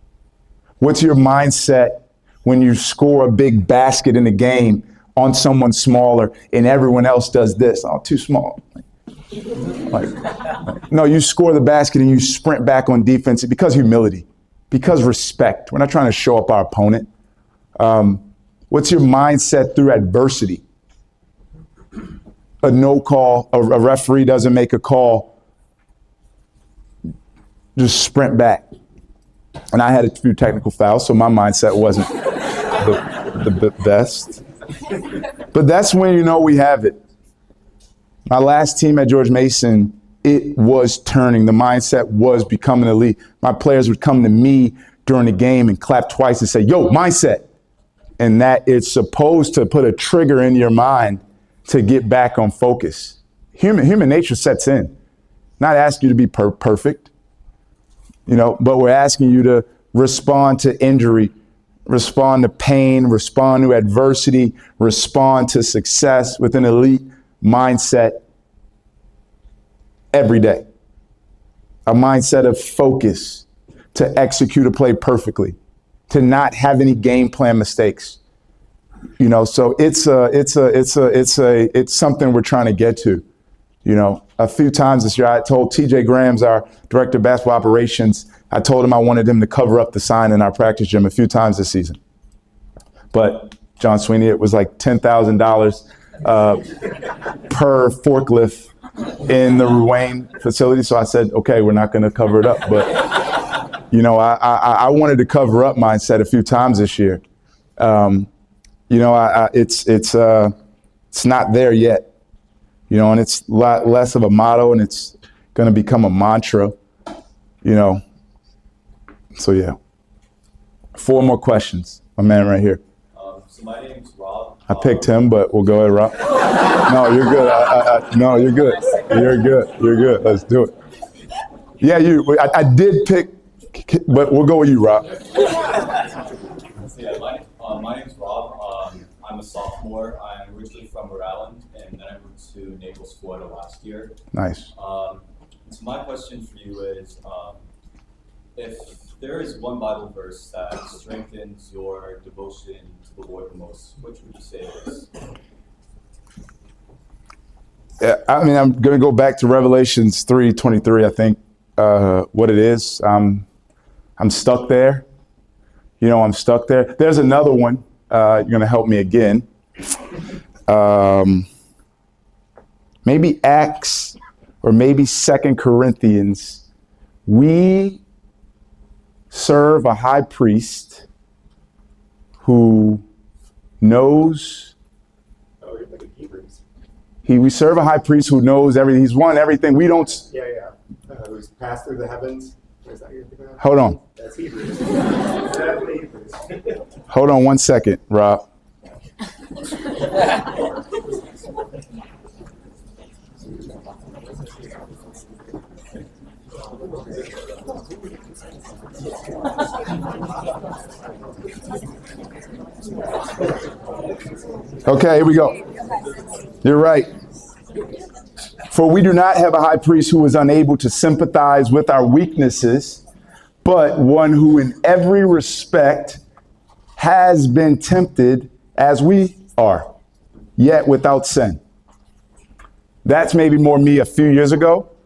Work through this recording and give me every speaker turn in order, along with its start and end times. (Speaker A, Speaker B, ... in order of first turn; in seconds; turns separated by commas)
Speaker A: 0.8-8.8, Speaker A: 10.6-17.1, Speaker A: 17.8-20.6, Speaker A: 22.6-25.3, Speaker A: 27.8-28.7, Speaker A: 29.7-32.2, Speaker A: 32.8-34.4, Speaker A: 35.5-37.0, Speaker A: 38.3-47.4, Speaker A: 48.2-54.9, Speaker A: 55.6-57.1, Speaker A: 58.3-61.3, Speaker A: 61.9-68.2, Speaker A: 70.1-70.6, Speaker A: 71.9-75.5, Speaker A: 76.1-78.2, Speaker A: 79.2-83.2, Speaker A: 83.8-92.0, Speaker A: 93.1-96.6, Speaker A: 97.5-98.7, Speaker A: 99.2-102.9, Speaker A: 103.9-107.2, Speaker A: 107.8-108.3, Speaker A: 108.9-110.5, Speaker A: 111.1-112.1, Speaker A: 112.9-116.8, Speaker A: 117.6-118.0, Speaker A: 119.3-119.8, Speaker A: 121.0-122.8, Speaker B: 123.1-125.1, Speaker A: 124.7-126.2, Speaker A: 126.8-130.7, Speaker A: 131.8-135.1, Speaker B: 136.8-144.1, Speaker A: 144.3-144.7, Speaker B: 144.7-147.6, Speaker B: 148.5-155.1, Speaker A: 158.0-163.4, Speaker A: 164.2-165.0, Speaker A: 166.0-169.4, Speaker A: 170.7-171.5, Speaker A: 173.0-176.6, Speaker A: 177.2-178.0, Speaker A: 179.3-181.0, Speaker A: 182.4-183.0, Speaker A: 183.8-184.7, Speaker C: 185.6-186.6, Speaker A: 187.2-190.3, Speaker C: 190.3-193.6, Speaker A: 193.6-194.0, Speaker C: 194.2-196.5, Speaker A: 197.1-198.4, Speaker A: 214.8-215.6, Speaker A: 216.6-217.1, Speaker A: 218.7-223.0, Speaker A: 223.6-226.2, Speaker A: 227.0-229.9, Speaker A: 230.6-231.6, Speaker A: 233.0-234.9